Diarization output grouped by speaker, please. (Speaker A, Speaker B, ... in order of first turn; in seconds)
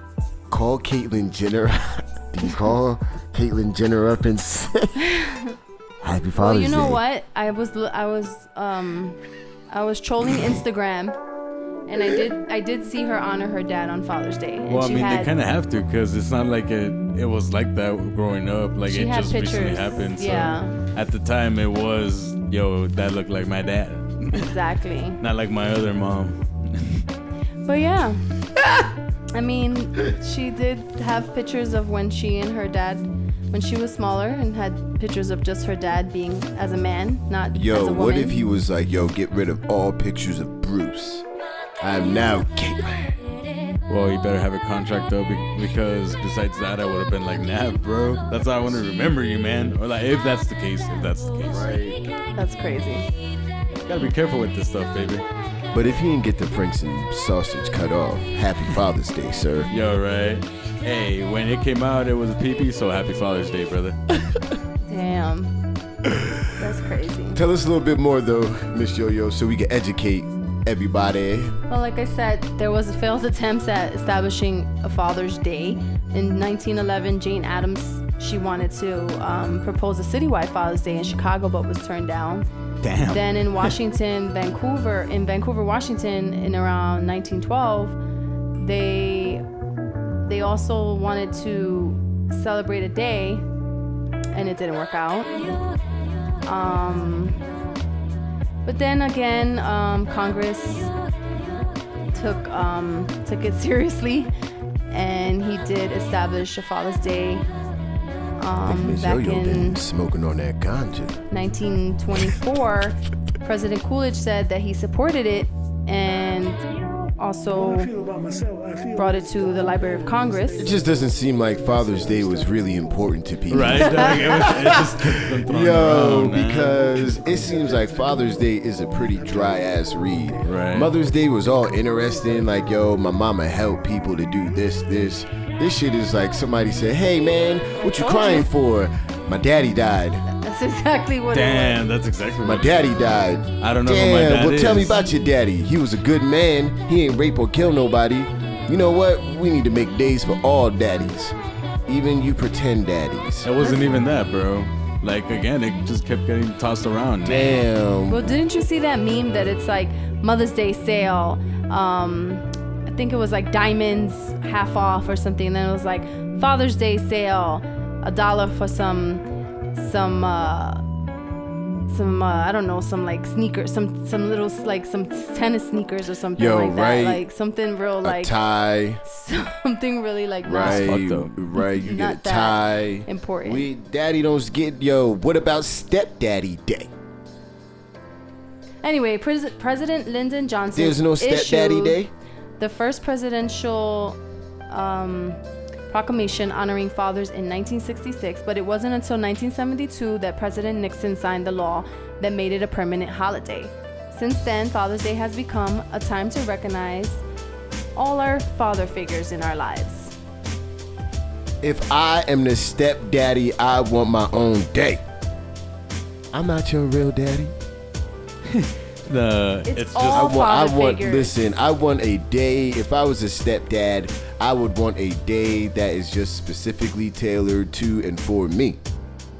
Speaker A: 0.5-5.0, 6.0-7.0, 37.5-41.2, 41.8-43.1, 51.5-52.1, 55.7-59.7, 66.0-66.5, 67.3-71.6, 108.6-111.2, 120.5-140.2, 142.4-151.3, 151.9-153.5, 157.2-158.3, 176.3-177.2, 178.0-179.0, 180.4-186.9, 190.7-192.1, 211.6-215.0, 216.3-217.5, 220.1-228.8
Speaker B: 5.0-5.5, 6.4-9.2, 9.7-11.2, 11.9-15.3, 18.9-20.8, 24.3-25.2, 27.6-28.2, 29.3-38.4, 52.3-53.0, 64.9-65.5, 66.6-67.4, 71.7-82.5, 83.1-88.0, 88.6-89.4, 90.2-93.4, 94.3-95.5, 96.5-97.4, 98.6-100.9, 102.1-104.3, 104.9-107.5, 108.4-109.8, 111.3-116.6, 117.2-118.0, 118.8-120.7, 123.8-124.2, 137.9-138.5, 140.3-141.8, 153.6-154.0, 158.1-169.2, 169.7-170.8, 171.9-178.3, 179.0-180.9, 181.5-183.7, 188.8-192.0, 192.6-207.2, 207.9-210.2, 219.7-221.3
Speaker C: 14.7-24.5, 25.2-27.1, 43.9-51.7, 53.9-55.2, 59.7-64.0, 82.8-83.7, 123.5-127.2, 130.4-130.9, 141.3-145.0, 153.4-157.6, 180.6-181.3, 218.4-220.3